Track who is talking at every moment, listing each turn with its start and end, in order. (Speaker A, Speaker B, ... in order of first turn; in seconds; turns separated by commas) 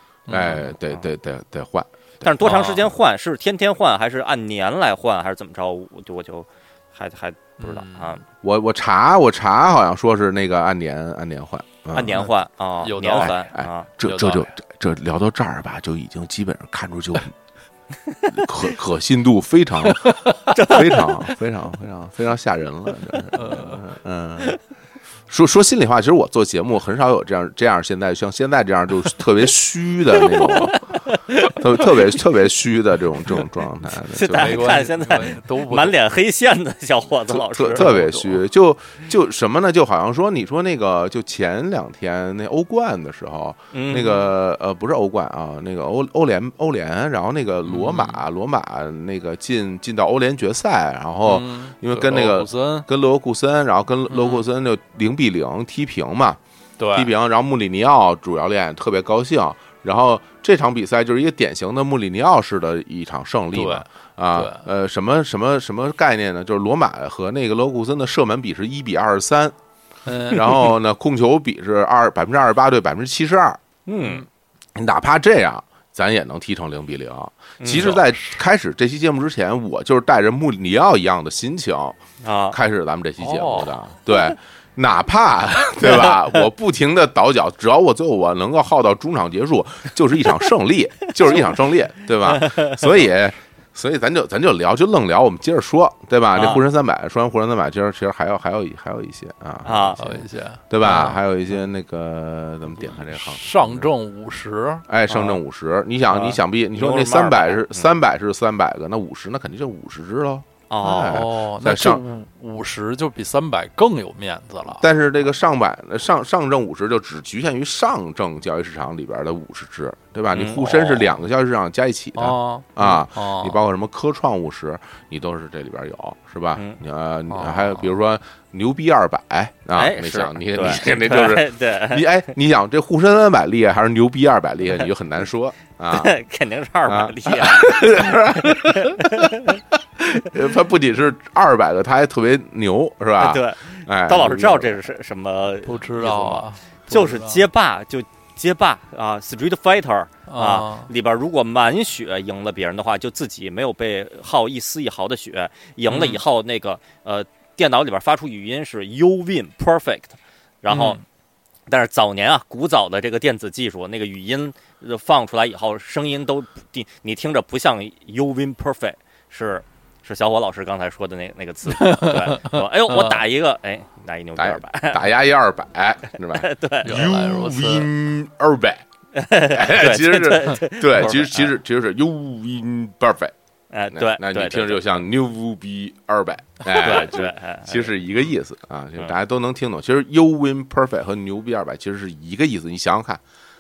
Speaker A: 0.3-0.8, Speaker B: 0.3-2.3, Speaker C: 2.2-8.2, Speaker A: 2.4-2.9, Speaker A: 7.6-8.2, Speaker B: 8.4-12.2, Speaker C: 11.9-13.9, Speaker A: 12.1-14.5, Speaker B: 13.2-17.3, Speaker B: 18.3-24.6, Speaker C: 20.5-21.1, Speaker A: 23.3-23.8, Speaker B: 25.3-34.8, Speaker C: 30.4-31.6, Speaker C: 34.1-38.0, Speaker A: 34.3-36.0, Speaker B: 37.3-56.4, Speaker A: 37.7-38.4, Speaker C: 43.7-44.3, Speaker A: 47.6-48.2, Speaker A: 51.2-52.9, Speaker A: 54.1-54.4, Speaker A: 56.8-57.1, Speaker B: 56.9-69.5, Speaker A: 63.5-64.7, Speaker A: 70.0-70.5, Speaker B: 70.2-73.6, Speaker C: 73.9-74.2, Speaker A: 74.0-74.2, Speaker B: 74.7-103.9, Speaker C: 77.6-78.0, Speaker A: 77.7-78.4, Speaker C: 82.2-82.6, Speaker A: 83.2-83.9, Speaker C: 85.8-86.2, Speaker C: 92.3-92.8, Speaker C: 96.3-96.6, Speaker C: 99.6-100.0, Speaker A: 100.0-101.2, Speaker A: 102.8-105.4, Speaker B: 104.9-112.0, Speaker A: 106.1-106.4, Speaker C: 106.7-107.9, Speaker C: 110.7-111.2, Speaker A: 110.9-114.8, Speaker B: 114.7-136.2, Speaker C: 120.3-121.0, Speaker A: 122.2-123.6, Speaker A: 127.3-127.8, Speaker C: 129.7-132.2, Speaker C: 135.9-139.6, Speaker B: 136.8-144.9, Speaker C: 143.2-161.0, Speaker A: 145.6-147.4, Speaker A: 150.3-150.9, Speaker A: 155.9-156.2, Speaker A: 160.7-161.0, Speaker C: 161.7-175.1, Speaker A: 171.7-173.2, Speaker B: 174.4-178.8, Speaker C: 176.3-177.1, Speaker A: 176.8-177.9, Speaker C: 179.1-181.5, Speaker B: 179.4-183.3, Speaker C: 183.7-185.0, Speaker B: 183.9-193.2, Speaker C: 186.7-187.9